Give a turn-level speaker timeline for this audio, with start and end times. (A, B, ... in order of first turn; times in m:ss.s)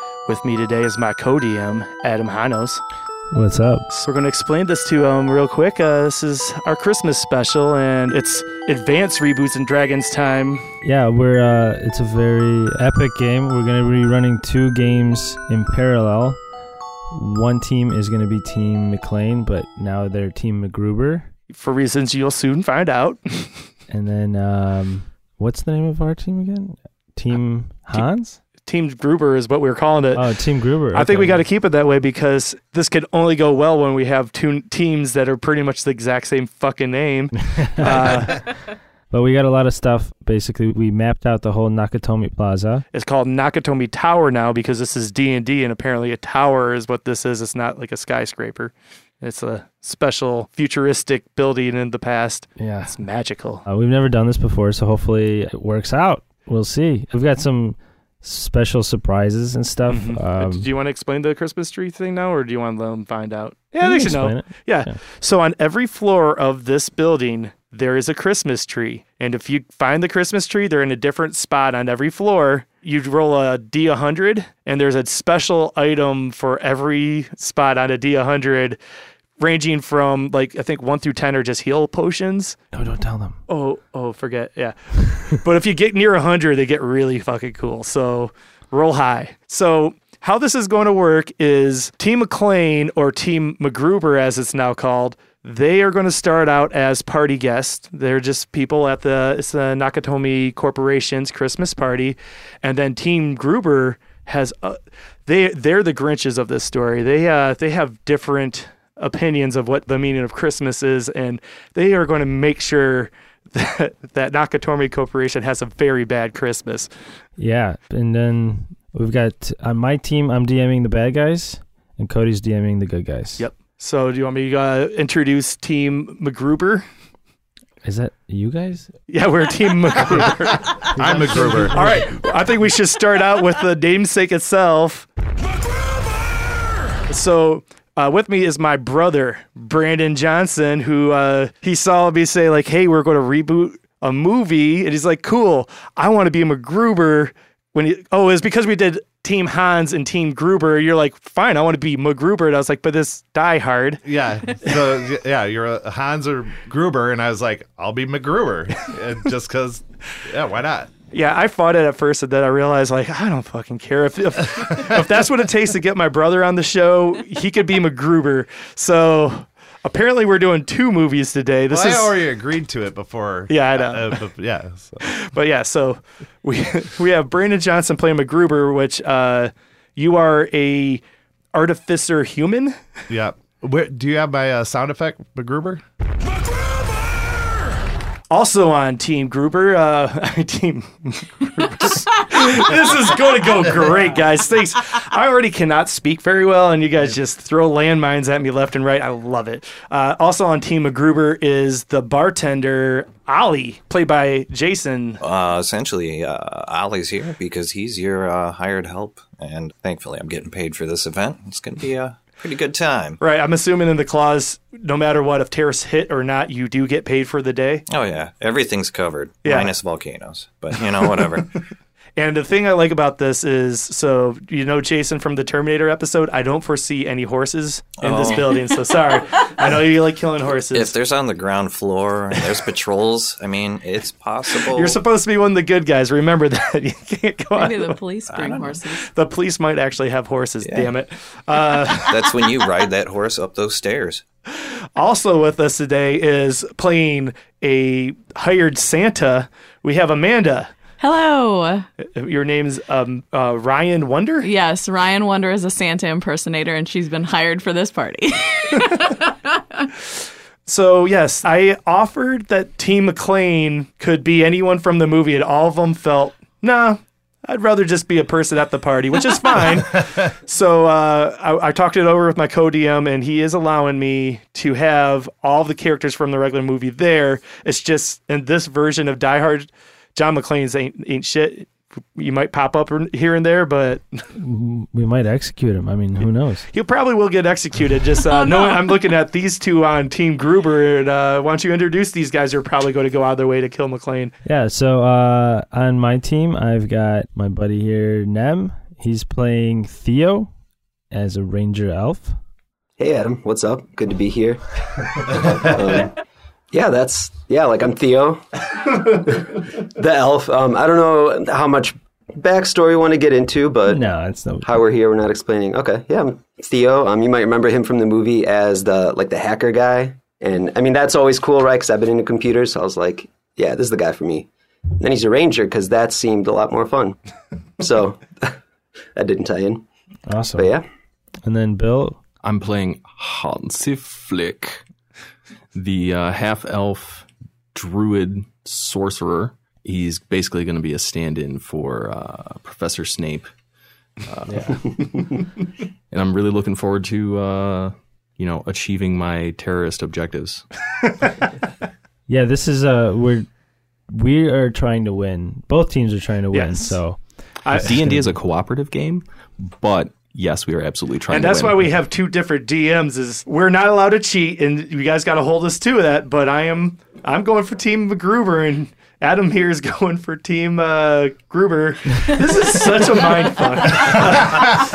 0:00.3-0:02.8 A
0:03.3-0:03.9 B
0:03.9-0:10.6 A
0:10.8-0:16.4 B
0:17.1-0:21.3 B
0:21.5-0:23.6 A
0:23.9-0:28.4 B
0:28.6-0:30.3 A
0:30.2-0:31.4 B
0:30.9-0:38.4 A
0:37.6-0:38.2 B
0:39.1-0:42.8 B
0:42.9-0:53.6 A
0:52.6-0:53.0 B
0:53.6-1:00.7 B
0:59.9-1:18.8 A
1:03.8-1:05.0 B
1:19.4-1:22.6 A
1:22.7-1:23.4 B
1:23.5-1:56.9 A
1:57.4-2:03.4 B
2:03.4-2:06.8 A
2:07.8-2:08.9 B
2:09.1-2:15.1 A
2:10.9-2:12.0 C
2:11.0-2:11.9 B
2:17.1-2:34.0 A
2:34.0-2:40.9 C
2:41.1-2:52.1 A
2:51.7-2:55.0 C
2:53.5-2:54.3 A
2:55.0-3:01.0 A
3:01.5-3:02.8 A
3:03.1-3:05.8 C
3:08.3-3:25.2 A
3:25.2-3:33.2 D
3:33.2-3:37.8 A
3:37.9-3:41.5 D
3:39.4-3:39.7 A
3:42.2-3:50.9 A
3:48.0-3:48.6 D
3:50.7-3:55.0 D
3:54.5-3:58.0 A
3:57.6-3:59.1 E
3:58.3-3:58.8 D
3:59.0-4:02.4 A
4:00.6-4:00.9 D
4:02.0-4:04.2 D
4:04.6-4:10.7 A
4:11.0-4:11.9 E
4:12.0-4:14.5 A
4:14.4-4:19.8 E
4:20.7-4:44.2 A
4:44.4-4:46.6 B
4:46.7-4:54.3 A
4:48.3-4:48.9 E
4:54.4-5:00.5 B
5:01.1-5:02.4 B
5:03.0-5:06.1 F
5:06.7-5:14.1 F
5:13.9-5:14.8 B
5:14.6-5:27.2 F
5:27.8-5:28.6 F
5:29.2-5:29.9 F
5:30.3-5:30.7 B
5:30.5-5:30.9 F
5:31.4-5:32.2 B
5:32.4-5:34.8 G
5:35.7-5:43.5 G
5:44.2-5:44.8 G
5:44.5-5:44.8 B
5:46.1-5:50.6 G
5:52.3-5:53.5 B
5:54.1-5:57.2 B
5:56.5-5:57.0 A
5:57.7-6:02.0 G
6:01.3-6:14.7 A